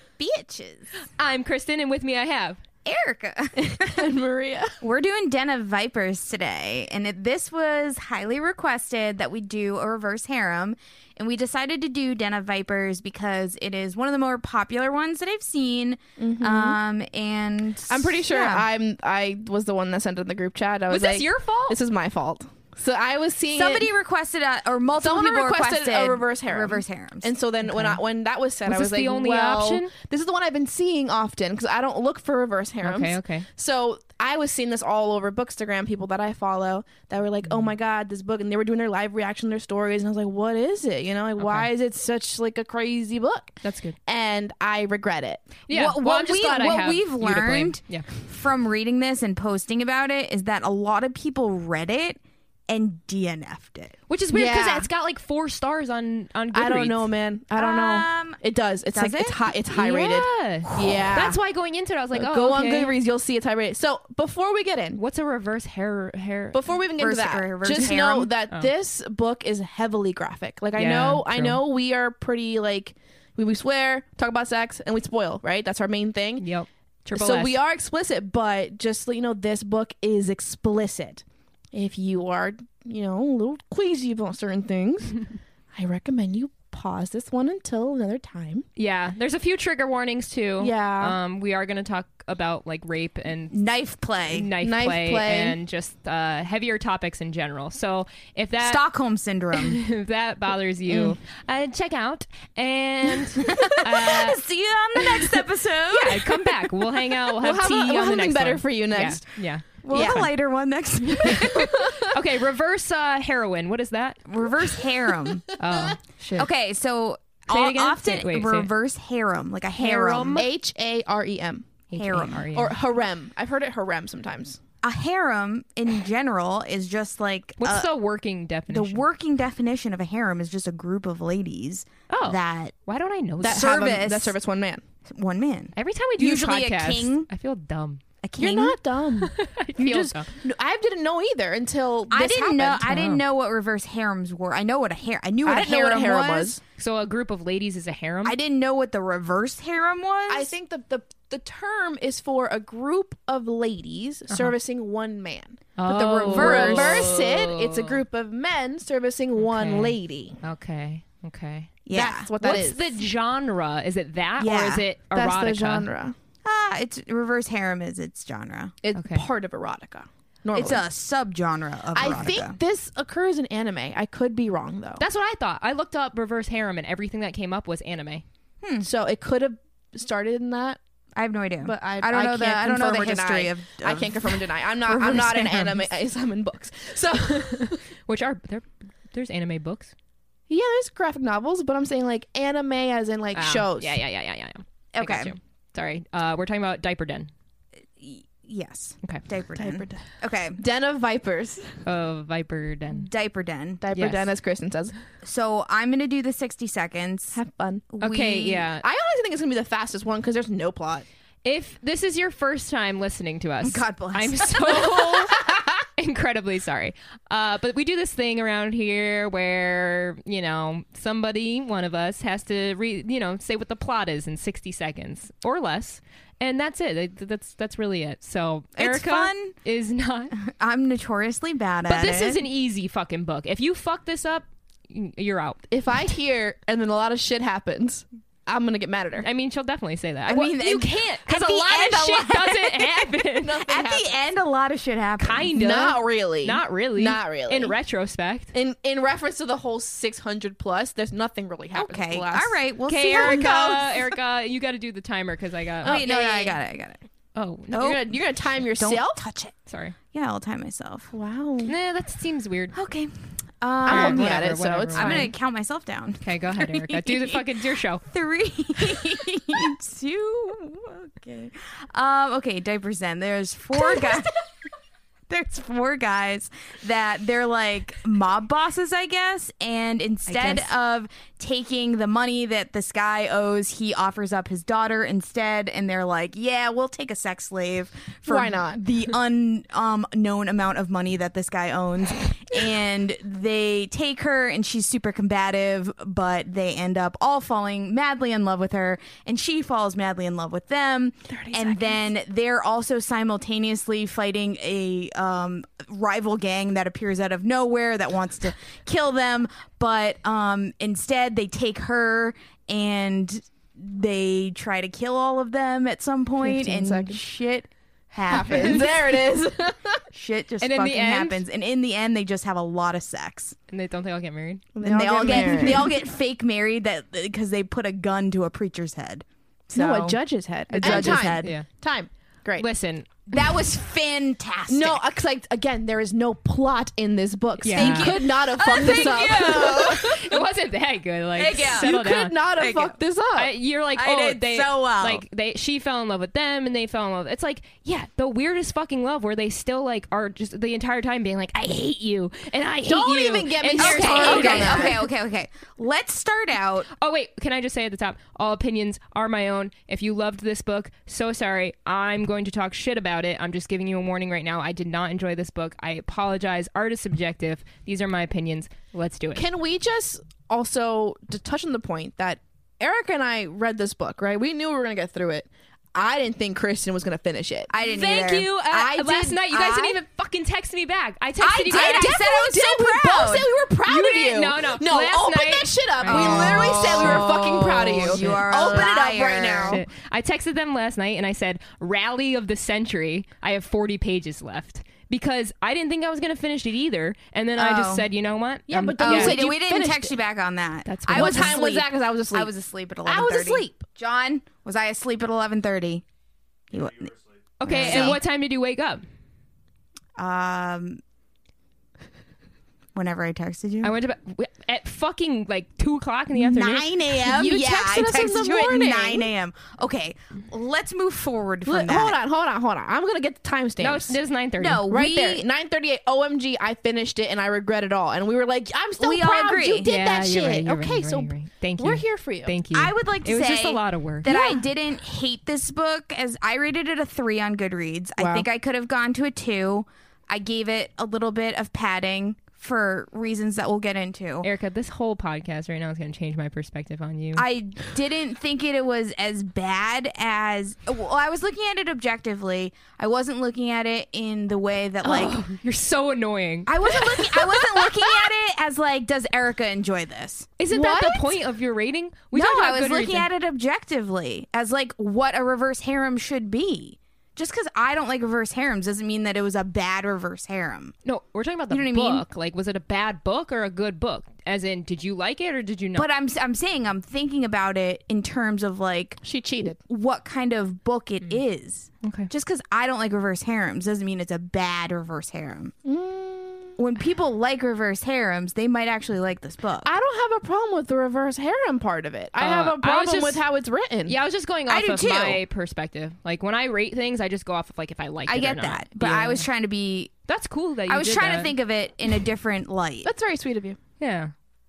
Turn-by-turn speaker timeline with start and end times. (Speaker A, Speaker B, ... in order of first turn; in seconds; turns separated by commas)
Speaker A: 0.2-0.9, Speaker B: 1.2-2.6, Speaker A: 2.8-4.0, Speaker C: 3.5-4.8, Speaker A: 4.8-18.7, Speaker C: 16.2-16.8, Speaker C: 17.9-23.9, Speaker B: 20.9-21.8, Speaker A: 23.5-27.3, Speaker C: 25.0-45.6, Speaker B: 27.6-28.0, Speaker B: 28.7-29.9, Speaker B: 32.8-33.5, Speaker B: 37.4-37.7, Speaker B: 41.4-41.7, Speaker B: 43.6-44.0, Speaker B: 45.7-48.1, Speaker A: 45.7-53.9, Speaker B: 54.1-57.1, Speaker C: 54.3-54.9, Speaker C: 56.5-61.4, Speaker A: 57.5-58.4, Speaker A: 58.9-59.4, Speaker B: 59.7-62.9, Speaker A: 60.8-61.2, Speaker C: 62.1-65.0, Speaker B: 65.0-66.7, Speaker C: 66.5-76.4, Speaker A: 67.0-68.3, Speaker B: 67.7-68.0, Speaker B: 70.8-71.6, Speaker B: 76.4-77.5, Speaker C: 77.1-88.6, Speaker B: 88.8-93.5, Speaker C: 90.6-91.2, Speaker A: 93.5-94.5, Speaker B: 94.3-98.8, Speaker C: 94.6-95.6, Speaker A: 98.6-99.8, Speaker B: 99.5-104.4, Speaker A: 103.4-106.5, Speaker B: 104.9-110.3, Speaker C: 107.4-109.4, Speaker A: 109.8-111.8, Speaker C: 109.9-110.2, Speaker B: 111.0-114.2, Speaker A: 114.3-115.4, Speaker B: 115.6-116.5, Speaker A: 116.3-120.4, Speaker B: 117.5-118.7, Speaker B: 119.8-120.5, Speaker C: 120.3-121.7, Speaker B: 121.9-122.8, Speaker A: 121.9-122.5, Speaker C: 122.5-124.6, Speaker A: 124.8-127.9, Speaker B: 127.6-129.0, Speaker A: 128.7-132.7, Speaker B: 132.1-133.7, Speaker C: 133.4-134.8, Speaker A: 133.4-134.3, Speaker A: 135.0-137.3, Speaker B: 135.8-138.0, Speaker A: 138.2-138.8, Speaker C: 138.4-142.9, Speaker B: 139.2-140.3, Speaker A: 142.1-146.5, Speaker B: 142.9-143.2, Speaker C: 145.4-146.6, Speaker B: 146.8-148.4, Speaker A: 148.2-150.5, Speaker C: 150.3-160.4, Speaker B: 155.8-158.0, Speaker A: 156.3-157.1, Speaker B: 159.4-161.7, Speaker A: 161.8-162.3, Speaker C: 161.9-162.9, Speaker B: 162.4-165.9, Speaker A: 164.4-164.8, Speaker C: 165.1-166.1, Speaker A: 166.4-168.7, Speaker C: 168.8-170.9, Speaker B: 168.9-169.2, Speaker A: 170.5-172.6, Speaker C: 171.9-175.0, Speaker B: 175.0-178.2, Speaker A: 178.6-178.9, Speaker C: 178.8-180.8, Speaker A: 181.2-185.8, Speaker C: 181.6-187.8, Speaker B: 188.1-189.9, Speaker C: 190.5-194.0, Speaker B: 193.3-197.3, Speaker A: 194.9-195.3, Speaker A: 198.0-200.6, Speaker C: 199.5-200.0, Speaker C: 200.6-201.8, Speaker B: 201.8-203.1, Speaker A: 202.9-203.8, Speaker C: 203.8-204.9, Speaker B: 203.9-204.3, Speaker A: 205.2-207.4, Speaker C: 207.3-211.0, Speaker A: 207.9-208.6, Speaker B: 208.0-208.8, Speaker B: 211.4-215.4, Speaker A: 213.6-215.1, Speaker B: 215.9-230.3, Speaker A: 228.8-229.5, Speaker A: 230.3-232.4, Speaker B: 231.8-235.6, Speaker C: 235.7-239.2, Speaker B: 239.2-243.6, Speaker A: 240.2-243.1, Speaker C: 243.3-244.2, Speaker A: 243.6-245.5, Speaker B: 245.2-248.5, Speaker C: 245.5-247.7, Speaker C: 248.5-252.6, Speaker A: 251.7-254.0, Speaker B: 252.9-256.0, Speaker C: 253.2-253.5, Speaker C: 255.8-256.6, Speaker A: 255.8-257.0, Speaker B: 257.3-258.0, Speaker A: 257.7-258.0, Speaker C: 257.7-259.2, Speaker A: 258.6-259.5, Speaker B: 259.7-259.9, Speaker A: 260.1-261.1, Speaker C: 261.1-261.7, Speaker B: 261.7-262.7, Speaker A: 262.7-267.4, Speaker C: 263.9-265.3, Speaker B: 263.9-265.3, Speaker B: 266.2-268.0, Speaker A: 268.0-274.3, Speaker A: 275.3-319.1, Speaker B: 280.3-280.7, Speaker C: 288.3-288.8, Speaker C: 301.3-302.1, Speaker C: 316.4-317.2, Speaker C: 318.3-320.0, Speaker B: 318.3-318.8, Speaker A: 320.1-323.6, Speaker B: 320.6-321.4, Speaker B: 323.7-324.7, Speaker C: 324.7-325.9, Speaker A: 324.8-330.2, Speaker B: 325.2-325.8, Speaker C: 329.7-332.6, Speaker B: 330.7-331.6, Speaker A: 330.8-331.6, Speaker B: 332.6-333.1, Speaker A: 333.3-335.0, Speaker C: 334.7-340.2, Speaker B: 337.6-342.4, Speaker A: 337.7-340.2, Speaker A: 341.4-341.9, Speaker C: 341.5-343.5, Speaker A: 342.6-343.0, Speaker B: 343.4-355.0, Speaker A: 343.9-345.2, Speaker C: 352.8-355.0, Speaker A: 353.8-356.9, Speaker B: 356.9-369.4, Speaker C: 369.4-377.7, Speaker A: 377.7-380.0, Speaker B: 377.8-382.2, Speaker C: 378.7-379.4, Speaker A: 381.4-383.5, Speaker C: 381.7-389.8, Speaker B: 383.9-388.9, Speaker A: 386.1-387.3, Speaker A: 388.0-389.8, Speaker B: 389.7-399.4, Speaker A: 397.6-398.1, Speaker C: 398.7-400.1, Speaker A: 399.0-406.0, Speaker B: 400.9-401.6, Speaker C: 401.1-402.5, Speaker C: 403.0-403.8, Speaker A: 406.7-408.2, Speaker B: 407.6-409.0, Speaker C: 407.8-408.1, Speaker A: 410.2-411.0, Speaker A: 412.9-413.9, Speaker B: 413.8-416.9, Speaker A: 416.3-422.1, Speaker C: 417.2-419.3, Speaker C: 421.6-424.2, Speaker B: 423.8-424.8, Speaker A: 424.6-425.4, Speaker C: 424.9-432.5, Speaker A: 429.0-429.9, Speaker B: 429.8-434.3, Speaker A: 432.7-444.5, Speaker C: 434.2-434.6, Speaker C: 438.2-438.5, Speaker B: 444.4-447.4, Speaker A: 447.4-455.4, Speaker B: 455.0-457.6, Speaker A: 456.6-460.5, Speaker B: 460.6-463.3, Speaker C: 460.7-461.3, Speaker A: 462.3-470.9, Speaker B: 471.0-476.1, Speaker A: 471.7-472.2, Speaker A: 475.9-479.2, Speaker C: 479.2-479.8, Speaker A: 479.8-485.7, Speaker B: 482.0-482.3, Speaker C: 485.8-486.8, Speaker A: 486.8-489.9, Speaker C: 489.8-494.2, Speaker B: 492.4-493.4, Speaker B: 494.1-499.4, Speaker A: 494.7-495.4, Speaker A: 498.2-500.1, Speaker B: 500.3-501.5, Speaker A: 500.9-503.1, Speaker C: 503.0-503.8, Speaker B: 504.0-504.3